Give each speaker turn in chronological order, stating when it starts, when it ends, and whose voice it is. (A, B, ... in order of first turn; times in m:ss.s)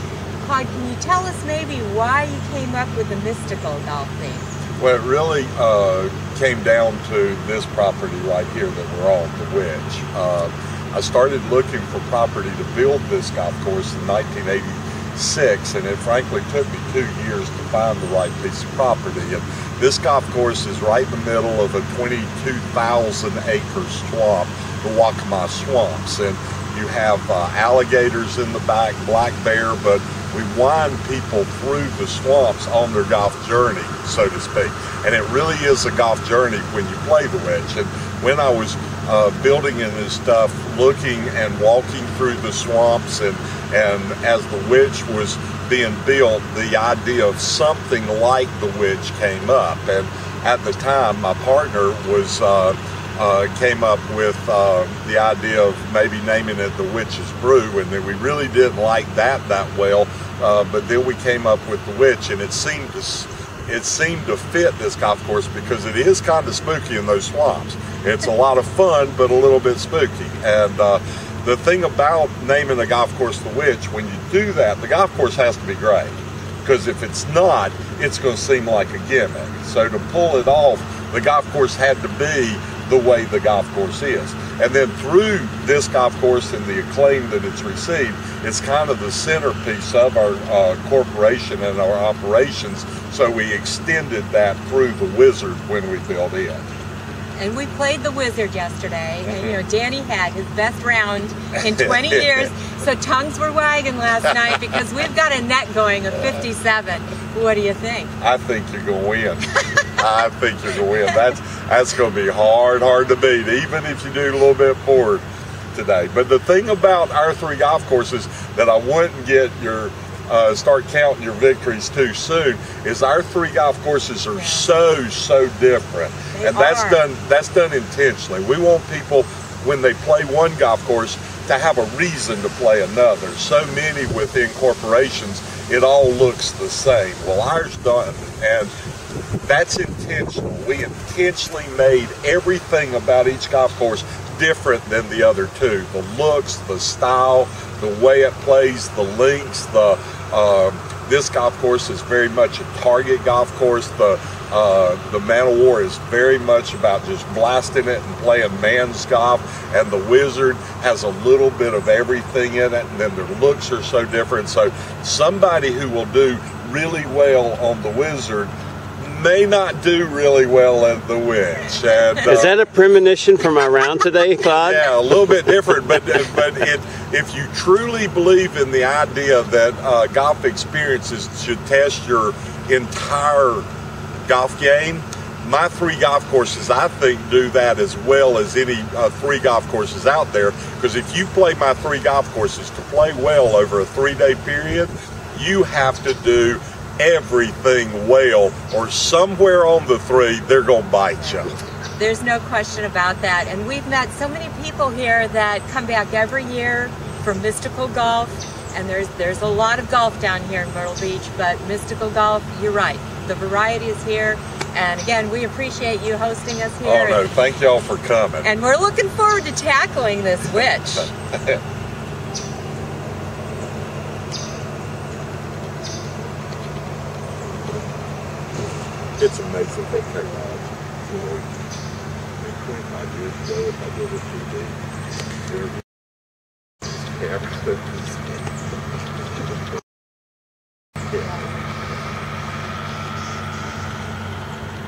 0:00.4-0:04.5 A
0:04.8-1:36.7 B
1:37.4-1:48.1 A
1:39.3-1:39.6 B
1:41.6-1:42.5 B
1:44.2-1:44.8 B
1:48.2-2:18.7 B
2:04.3-2:04.7 A
2:06.4-2:07.0 A
2:19.4-2:52.6 B
2:52.2-2:55.5 C
2:54.6-3:03.7 B
3:04.3-3:21.6 B
3:22.0-3:37.3 A
3:36.8-3:38.5 B
3:38.4-3:41.1 A
3:40.5-3:41.6 B
3:49.2-3:51.5 B
3:52.4-3:54.8 B
3:55.5-3:55.8 B
3:57.1-3:58.4 B
4:01.1-4:01.4 B